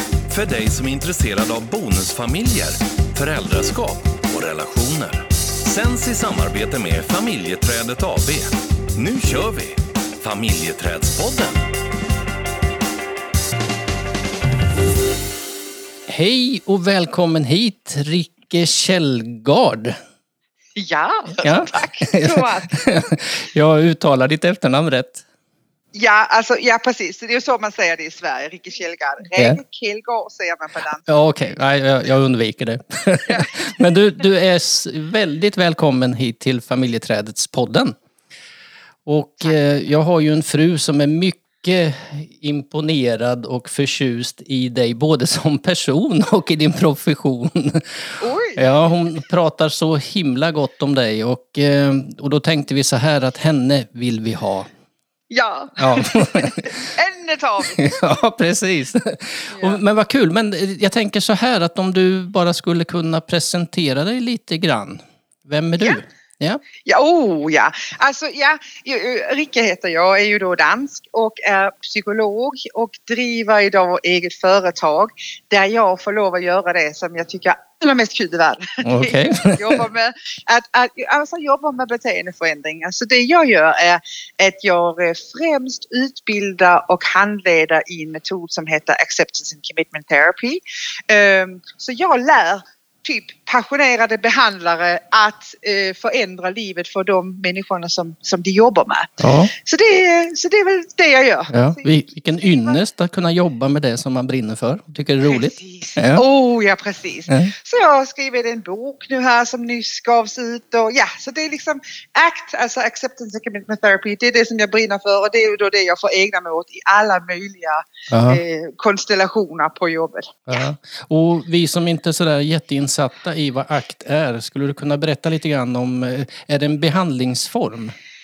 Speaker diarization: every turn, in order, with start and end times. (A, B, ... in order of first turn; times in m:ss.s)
0:00.3-0:11.7 A
0:16.1-0:20.0 B
0:20.8-0:23.2 C
0:21.4-0:25.2 B
0:25.9-0:31.1 C
0:31.0-0:37.9 B
0:33.3-0:33.7 C
0:39.0-0:54.7 B
0:48.2-0:48.7 C
0:55.3-0:58.0 C
0:55.8-0:56.7 B
0:57.8-1:06.6 B
0:59.5-0:59.8 C
1:06.8-1:42.8 C
1:18.8-1:19.8 B
1:39.2-1:39.5 B
1:41.5-1:46.2 B
1:45.2-2:00.6 C
1:58.1-1:58.4 B
2:00.5-2:07.9 B